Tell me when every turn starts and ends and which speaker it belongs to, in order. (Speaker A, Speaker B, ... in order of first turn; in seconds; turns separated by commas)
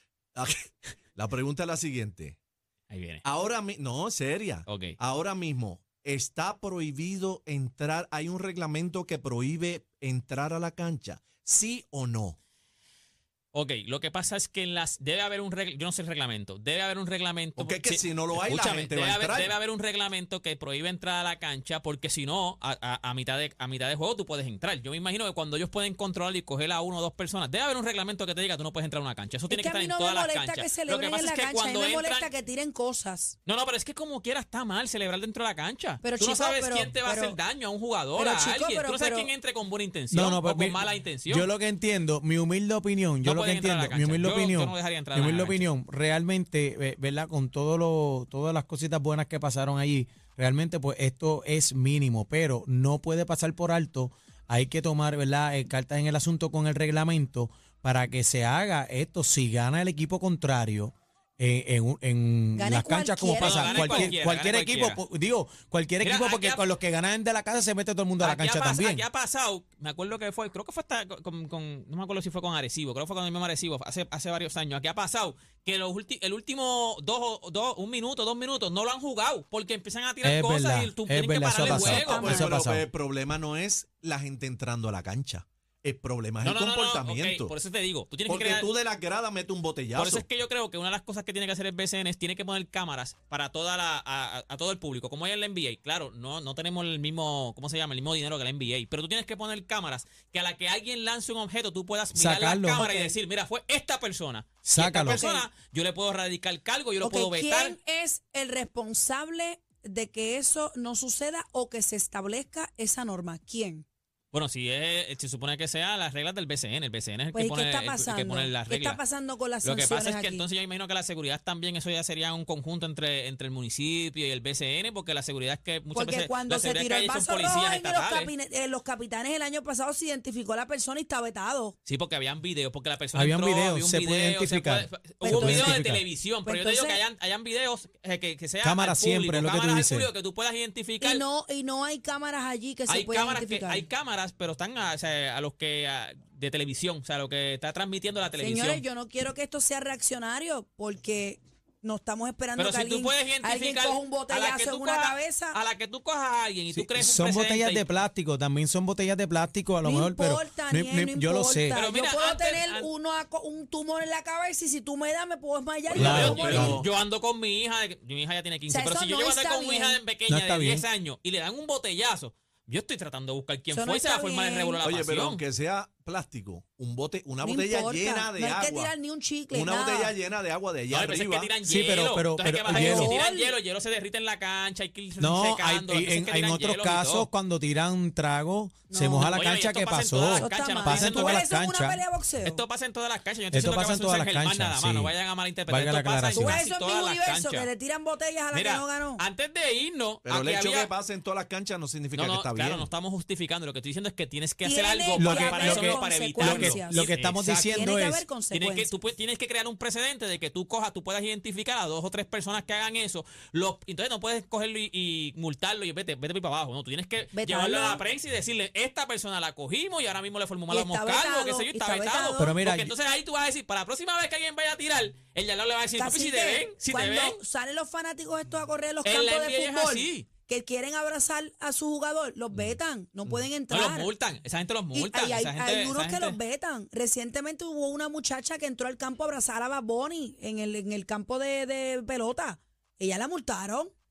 Speaker A: 0.3-2.4, Speaker B: 2.9-3.2, Speaker A: 3.2-12.4, Speaker B: 4.7-5.0, Speaker B: 13.5-32.3, Speaker A: 17.6-19.5, Speaker C: 29.5-33.4, Speaker B: 33.5-41.5, Speaker C: 36.0-37.4, Speaker C: 38.2-39.3, Speaker D: 40.1-69.0, Speaker B: 43.2-45.7, Speaker C: 62.6-64.1, Speaker B: 63.4-65.0, Speaker B: 66.0-66.6, Speaker B: 68.2-82.4, Speaker D: 80.2-82.8, Speaker C: 81.6-82.6, Speaker A: 82.0-87.5, Speaker B: 86.4-88.7, Speaker A: 88.3-90.2, Speaker B: 90.0-107.8, Speaker D: 102.1-102.8, Speaker C: 102.8-103.1, Speaker D: 104.7-105.2, Speaker C: 105.1-105.5, Speaker C: 107.0-113.8, Speaker B: 114.3-119.0, Speaker C: 117.3-120.5, Speaker B: 119.6-128.3, Speaker C: 125.9-131.8, Speaker B: 131.9-141.2, Speaker D: 133.2-136.0, Speaker C: 135.2-135.8, Speaker C: 136.4-137.0, Speaker D: 138.6-140.1, Speaker C: 141.0-143.8, Speaker B: 142.9-148.8, Speaker C: 148.4-155.6, Speaker B: 152.6-157.8, Speaker D: 156.7-161.8, Speaker C: 159.8-166.8, Speaker B: 161.7-162.9, Speaker A: 165.9-166.8, Speaker D: 165.9-166.8, Speaker B: 165.9-175.4, Speaker C: 168.7-170.0, Speaker D: 170.3-170.9, Speaker C: 173.7-174.8, Speaker A: 174.8-178.9, Speaker C: 177.4-180.1, Speaker A: 179.5-181.5, Speaker B: 180.9-187.3, Speaker D: 181.7-183.2, Speaker C: 182.7-183.5, Speaker D: 185.2-192.0, Speaker C: 188.9-189.3, Speaker B: 189.2-191.4, Speaker C: 190.3-192.6, Speaker B: 192.4-197.7, Speaker D: 193.5-195.1, Speaker D: 195.7-196.6, Speaker C: 196.3-199.2, Speaker B: 198.5-200.9, Speaker A: 200.2-202.9, Speaker B: 202.1-207.9, Speaker C: 204.6-207.0, Speaker D: 205.2-208.3, Speaker C: 207.6-208.9, Speaker B: 208.5-227.4, Speaker C: 217.3-218.0, Speaker C: 220.7-222.6, Speaker D: 222.4-222.9, Speaker C: 226.0-234.1, Speaker B: 229.0-230.3, Speaker B: 233.7-236.4, Speaker C: 234.9-243.9